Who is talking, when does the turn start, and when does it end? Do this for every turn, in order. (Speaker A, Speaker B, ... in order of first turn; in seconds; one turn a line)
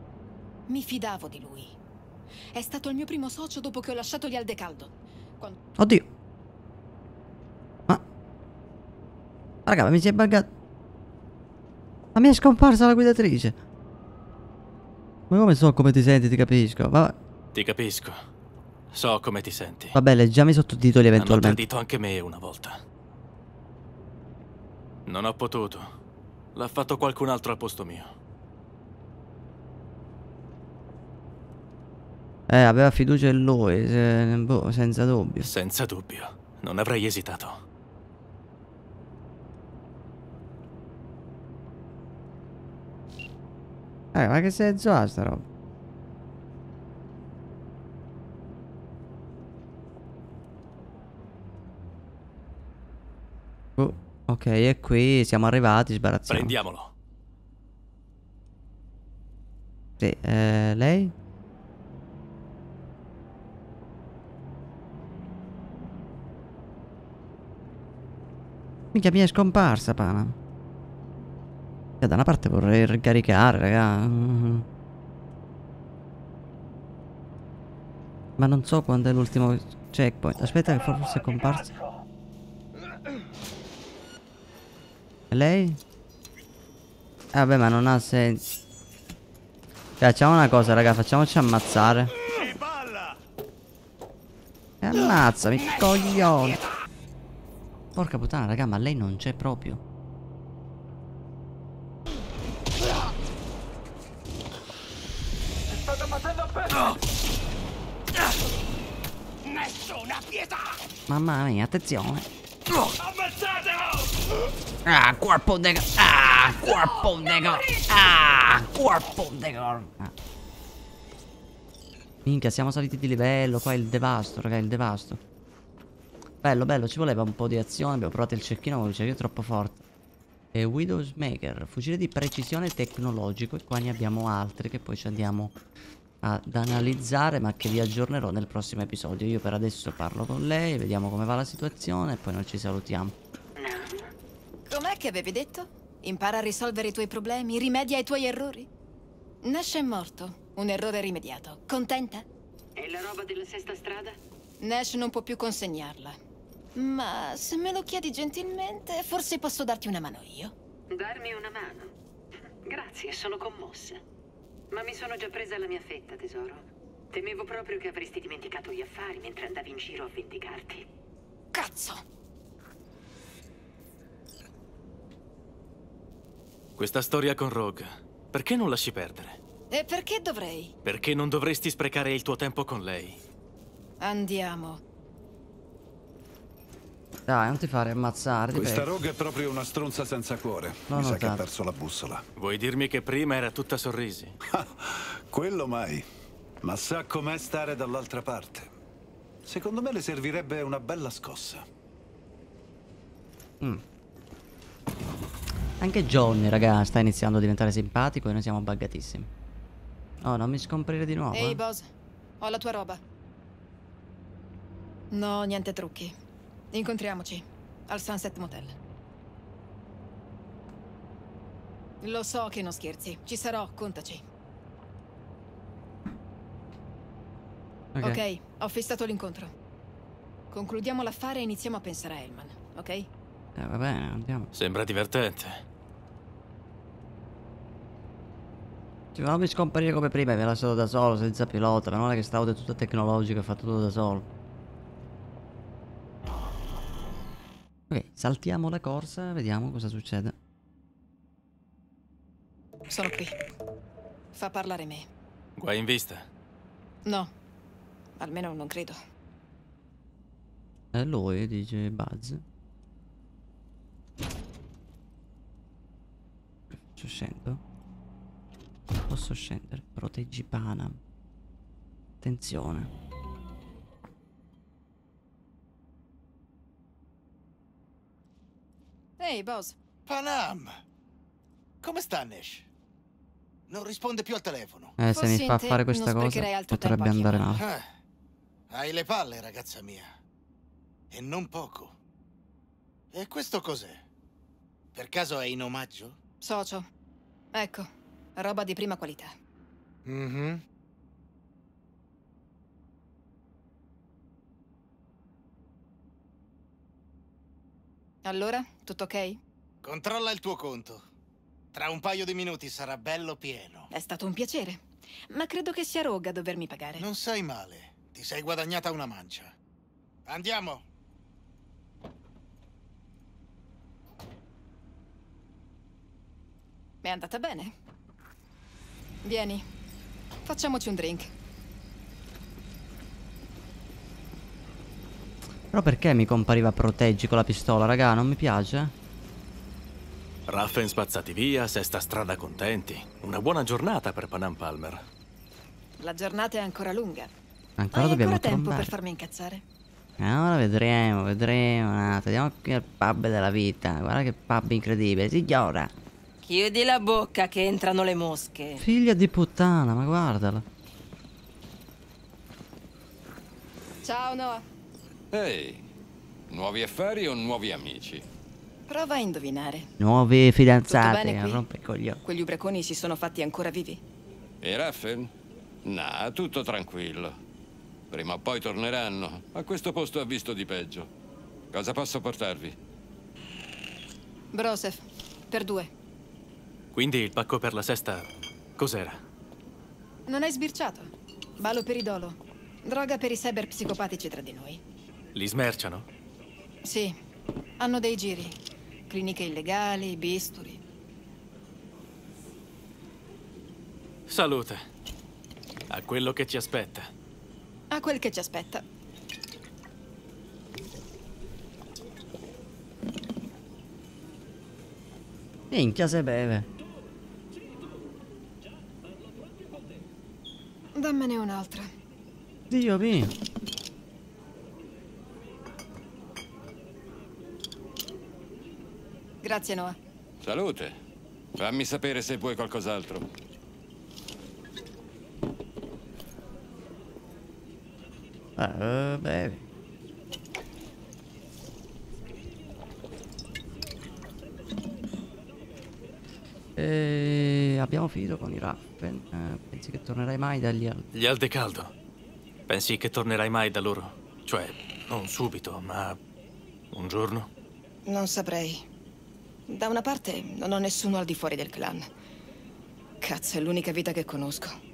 Speaker A: 0.7-1.7
Speaker A: 2.5-5.6
Speaker B: 5.8-6.1
Speaker B: 9.7-10.5
Speaker B: 12.1-13.6
Speaker B: 15.3-17.2
Speaker C: 17.5-18.1
Speaker C: 18.9-19.9
Speaker B: 19.9-21.6
Speaker C: 21.2-22.8
Speaker C: 25.1-25.9
Speaker C: 26.5-28.1
Speaker B: 32.5-35.5
Speaker C: 35.4-37.6
Speaker B: 44.1-45.4
Speaker B: 53.8-56.5
Speaker C: 56.3-56.9
Speaker B: 60.0-61.1
Speaker B: 68.9-70.3
Speaker B: 72.0-74.7
Speaker B: 78.4-81.7
Speaker B: 85.3-85.8
Speaker B: 87.3-88.5
Speaker B: 90.0-92.1
Speaker B: 94.8-96.6
Speaker B: 97.9-99.8
Speaker B: 111.1-112.3
Speaker B: 114.8-120.1
Speaker B: 122.2-125.2
Speaker B: 126.4-129.8
Speaker B: 130.5-135.5
Speaker B: 136.2-143.1
Speaker D: 143.6-144.1
Speaker A: 144.7-148.7
Speaker A: 149.4-152.2
Speaker D: 152.8-154.2
Speaker A: 154.6-156.2
Speaker A: 156.7-160.5
Speaker D: 160.9-161.9
Speaker D: 162.7-164.0
Speaker D: 164.7-170.8
Speaker A: 171.5-172.0
Speaker C: 176.8-179.4
Speaker A: 179.7-180.7
Speaker C: 180.8-183.2
Speaker A: 184.0-184.8
Speaker B: 187.3-188.9
Speaker E: 188.5-192.2
Speaker B: 190.9-191.4
Speaker C: 192.3-194.3
Speaker E: 194.5-196.0
Speaker E: 196.6-198.7
Speaker E: 199.4-201.6
Speaker B: 205.8-209.3
Speaker B: 210.2-211.6
Speaker A: 211.3-211.8
Speaker A: 212.4-213.0
Speaker A: 215.1-216.1
Speaker A: 216.7-218.7
Speaker A: 222.0-224.2
Speaker B: 227.9-228.2
Speaker A: 228.0-229.5
Speaker A: 230.5-233.1
Speaker B: 233.6-234.5
Speaker C: 234.5-235.6
Speaker B: 239.1-244.2
Speaker B: 247.9-250.3
Speaker A: 252.9-253.3
Speaker A: 254.3-255.1
Speaker C: 255.6-256.3
Speaker A: 258.2-259.0
Speaker B: 260.9-262.4
Speaker B: 266.9-267.6
Speaker B: 269.1-271.0
Speaker B: 272.2-272.9
Speaker A: 279.2-279.8
Speaker F: 280.1-280.8
Speaker F: 281.8-282.7
Speaker F: 283.7-284.9
Speaker B: 285.0-287.6
Speaker A: 285.1-287.6
Speaker F: 287.6-287.9
Speaker F: 288.7-290.1
Speaker F: 291.1-291.9
Speaker F: 293.1-294.0
Speaker F: 294.9-296.2
Speaker A: 296.4-296.9
Speaker A: 297.5-299.3
Speaker F: 300.1-300.6
Speaker A: 308.2-309.4
Speaker F: 309.8-311.0
Speaker F: 311.7-313.9
Speaker A: 313.9-317.0
Speaker F: 317.0-319.5
Speaker F: 320.3-320.8
Speaker A: 327.0-327.7
Speaker A: 329.2-329.6
Speaker A: 330.4-331.3
Speaker B: 335.7-338.9
Speaker C: 340.5-345.0
Speaker A: 346.0-347.3
Speaker B: 347.8-348.9
Speaker A: 347.9-349.6
Speaker B: 350.2-355.9
Speaker G: 356.4-358.8
Speaker B: 358.8-360.6
Speaker A: 364.0-364.6
Speaker H: 365.3-365.8
Speaker H: 366.5-368.2
Speaker A: 368.9-369.9
Speaker B: 370.0-372.2
Speaker A: 370.9-371.6
Speaker A: 372.2-374.0
Speaker H: 374.6-375.3
Speaker H: 375.8-377.3
Speaker H: 378.1-381.1
Speaker H: 381.7-382.7
Speaker A: 384.5-385.9
Speaker C: 386.9-389.2
Speaker A: 390.3-394.8
Speaker C: 395.3-396.1
Speaker A: 396.8-397.1
Speaker A: 397.8-398.6
Speaker A: 399.1-400.8
Speaker C: 404.3-404.8
Speaker C: 405.9-407.1
Speaker A: 407.9-408.8
Speaker B: 415.7-416.7
Speaker A: 420.9-421.9
Speaker B: 422.7-423.3
Speaker A: 429.4-429.9
Speaker H: 430.4-430.9
Speaker H: 431.5-433.2
Speaker B: 438.6-439.6
Speaker B: 446.8-451.1
Speaker C: 451.1-451.9
Speaker C: 452.7-456.2
Speaker C: 456.9-457.5
Speaker A: 458.1-458.8
Speaker A: 459.7-462.1
Speaker A: 463.2-464.7